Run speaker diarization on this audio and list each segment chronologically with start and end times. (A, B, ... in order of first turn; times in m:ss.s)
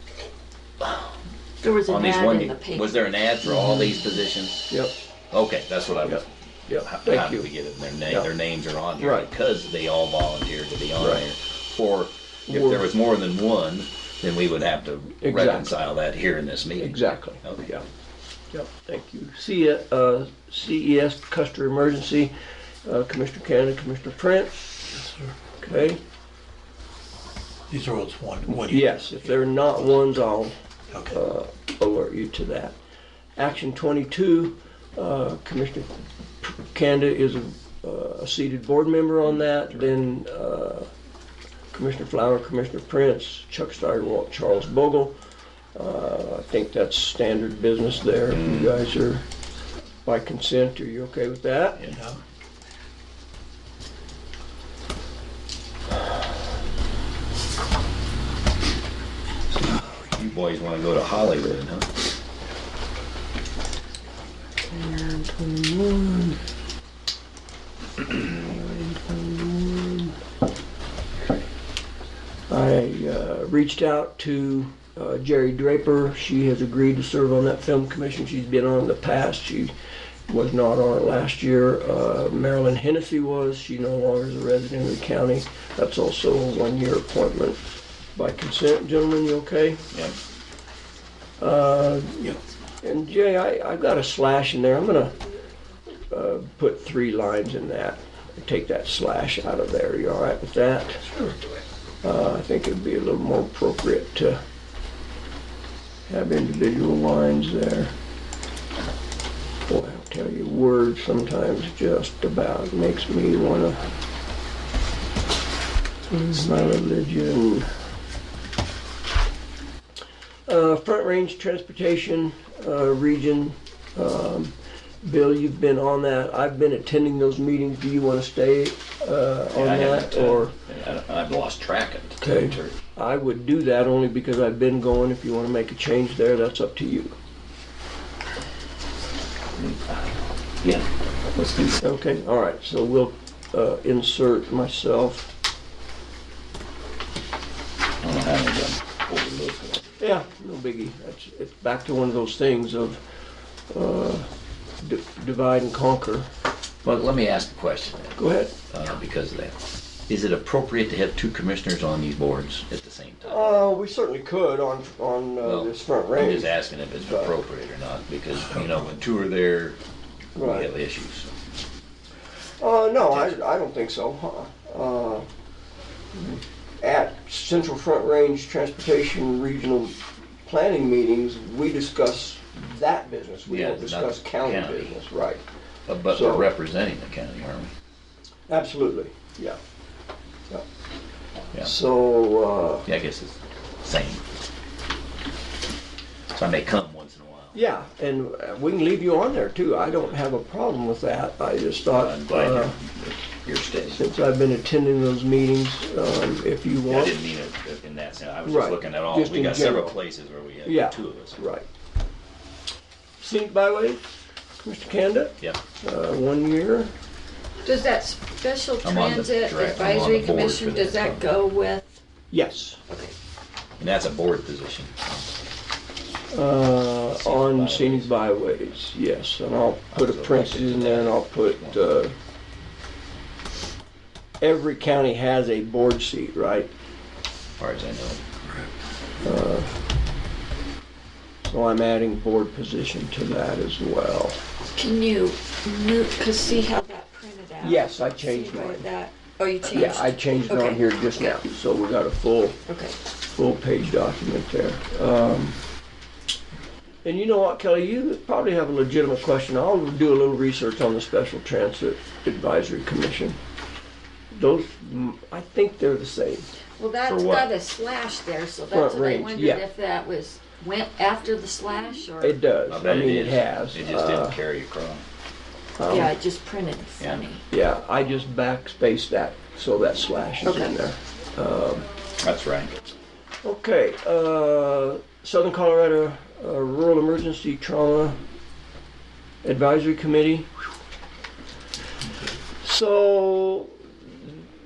0:00.8-0:01.1 A
0:01.6-0:03.0 B
0:01.8-0:04.7 A
0:03.5-0:04.0 C
0:05.3-0:17.8 A
0:06.0-0:07.5 C
0:09.0-0:09.3 C
0:12.5-0:12.9 C
0:15.2-0:15.8 C
0:16.8-0:17.8 C
0:18.5-0:22.3 C
0:22.8-0:24.7 C
0:24.9-0:25.4 D
0:25.6-0:26.0 C
0:27.7-0:29.1 D
0:28.7-0:30.5 C
0:30.9-0:31.2 D
0:31.1-0:32.8 C
0:33.4-0:40.9 C
0:41.7-0:45.2 C
0:45.7-0:49.2 C
0:48.3-0:48.7 A
0:50.0-0:51.8 C
0:51.9-0:52.2 D
0:59.7-1:01.9 A
1:04.6-1:06.4 C
1:08.1-1:10.1 C
1:12.5-1:19.7 C
1:20.3-1:27.6 C
1:28.1-1:29.8 C
1:31.4-1:35.2 C
1:36.1-1:41.1 C
1:42.0-1:44.4 C
1:46.1-1:47.9 C
1:49.7-1:53.9 C
1:56.1-1:57.7 C
2:00.5-2:10.5 C
2:09.5-2:12.8 A
2:12.2-2:17.1 C
2:19.6-2:21.8 A
2:21.8-2:25.3 C
2:28.0-2:29.9 A
2:30.0-2:33.0 C
2:33.7-2:34.3 C
2:34.8-2:36.2 C
2:36.8-2:38.2 A
2:38.2-2:38.5 C
2:38.7-2:39.6 A
2:40.1-2:43.6 A
2:43.2-2:46.5 C
2:45.4-2:49.8 A
2:47.0-2:47.3 C
2:50.3-2:50.7 C
2:50.4-2:51.3 A
2:52.6-2:55.2 C
2:53.0-2:53.4 A
2:56.1-3:05.4 C
3:03.5-3:04.9 A
3:05.9-3:07.7 A
3:06.1-3:06.5 C
3:08.5-3:09.6 C
3:11.6-3:12.9 C
3:12.8-3:14.2 A
3:16.3-3:17.6 A
3:17.5-3:22.8 C
3:21.9-3:24.0 A
3:23.9-3:27.2 C
3:26.9-3:31.4 A
3:28.4-3:30.0 C
3:30.6-3:31.7 C
3:33.2-3:34.0 C
3:34.6-3:36.9 C
3:37.6-3:42.0 B
3:38.8-3:41.3 A
3:42.3-3:42.8 C
3:42.9-3:43.1 B
3:43.8-3:45.2 A
3:46.3-3:52.1 C
3:47.1-3:48.2 A
3:49.9-3:51.8 A
3:54.4-3:56.7 C
3:57.6-3:58.3 A
3:59.2-3:59.7 C
4:01.4-4:04.4 C
4:04.7-4:11.4 B
4:07.6-4:08.9 C
4:09.6-4:12.6 C
4:12.7-4:13.0 B
4:13.3-4:15.6 C
4:17.0-4:23.4 C
4:24.3-4:26.5 C
4:26.8-4:32.4 B
4:27.0-4:27.5 A
4:28.7-4:29.6 C
4:32.2-4:34.4 C
4:32.7-4:35.0 A
4:35.8-4:36.1 C
4:35.9-4:37.4 B
4:37.0-4:37.2 A
4:37.5-4:41.9 C
4:40.4-4:40.8 B
4:42.2-4:42.7 A
4:43.4-4:48.2 C
4:49.4-4:50.5 C
4:52.6-4:54.1 C